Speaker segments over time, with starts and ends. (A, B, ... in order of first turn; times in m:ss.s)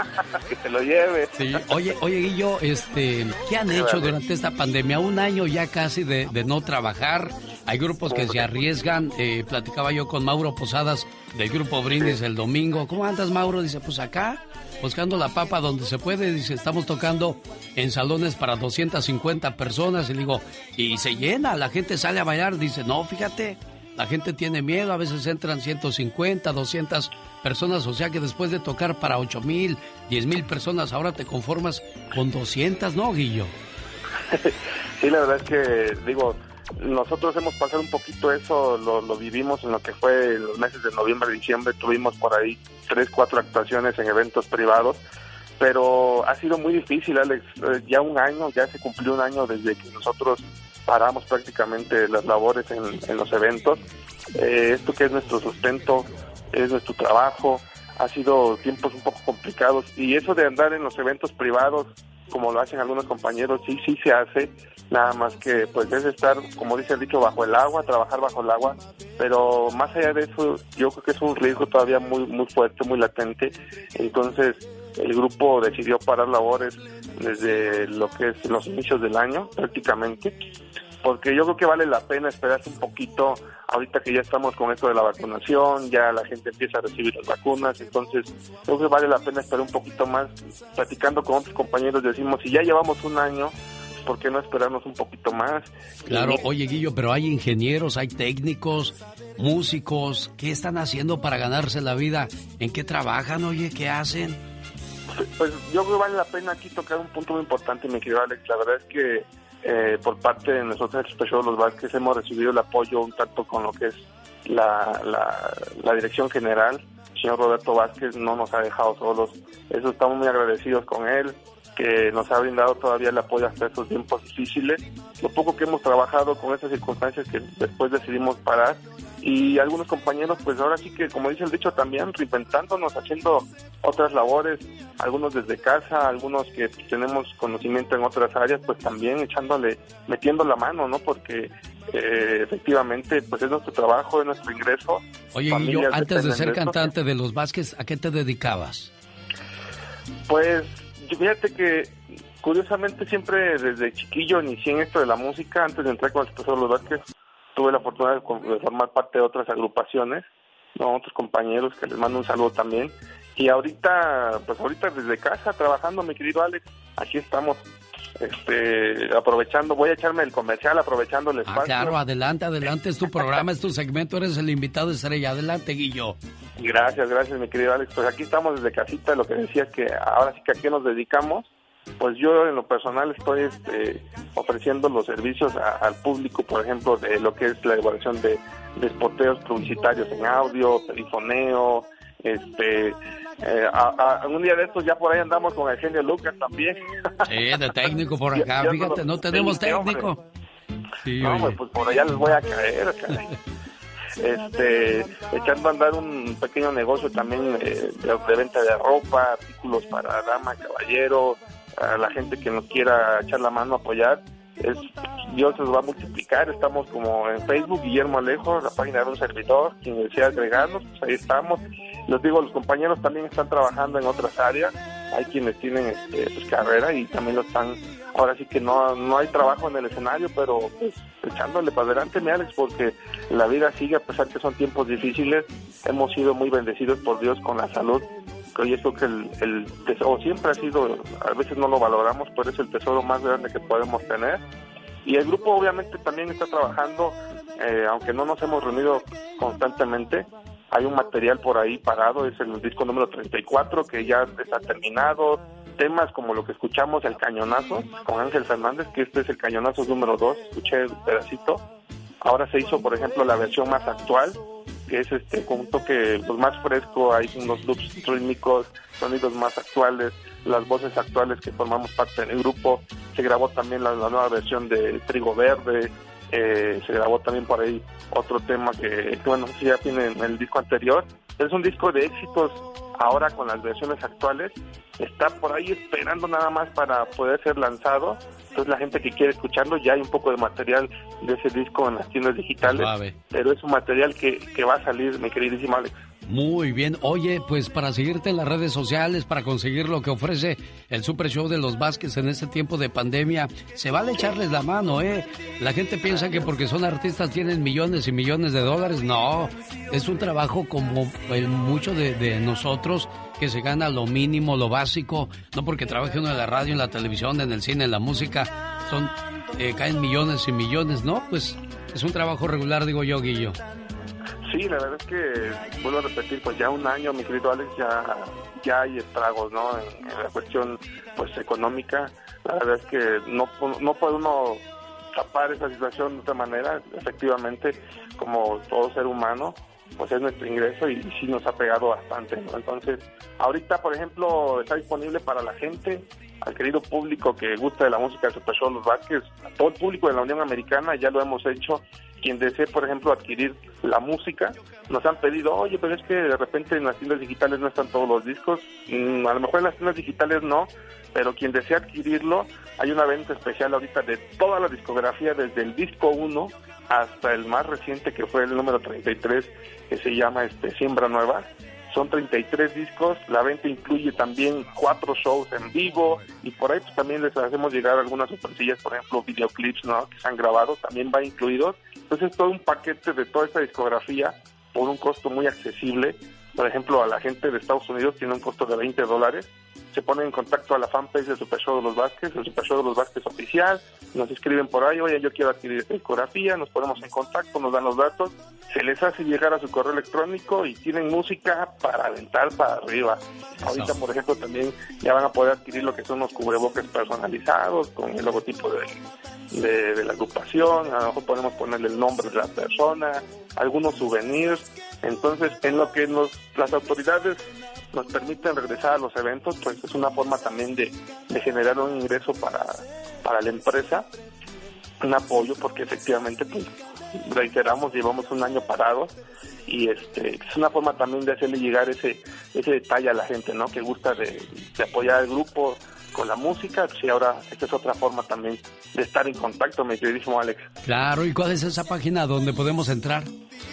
0:00.1-0:01.7 A
0:01.4-0:33.5 B
0:03.7-0:04.2 A
0:08.1-0:08.6 A
0:34.3-0:45.0 A
0:45.6-0:53.8 A
0:54.3-1:20.4 A
1:21.0-1:36.4 A
1:36.1-1:44.4 B
1:45.2-2:26.9 A
2:25.3-2:28.9 B
2:30.3-2:37.0 A
2:37.6-2:40.3 A
2:40.8-2:47.6 A
2:48.2-2:52.0 A
2:51.4-2:56.2 B
2:56.6-3:16.9 A
3:17.3-3:20.2 B
3:18.3-3:20.1 A
3:21.0-3:21.6 B
3:21.2-3:23.3 A
3:24.2-4:04.4 A
4:05.0-4:21.6 A
4:22.2-4:55.9 A
4:52.6-4:53.2 B
4:56.3-5:23.6 B
5:24.5-5:34.6 A
5:35.1-6:49.0 A
6:49.5-7:04.1 A
7:05.0-7:09.1 A
7:09.7-7:20.7 A
7:20.8-7:23.3 B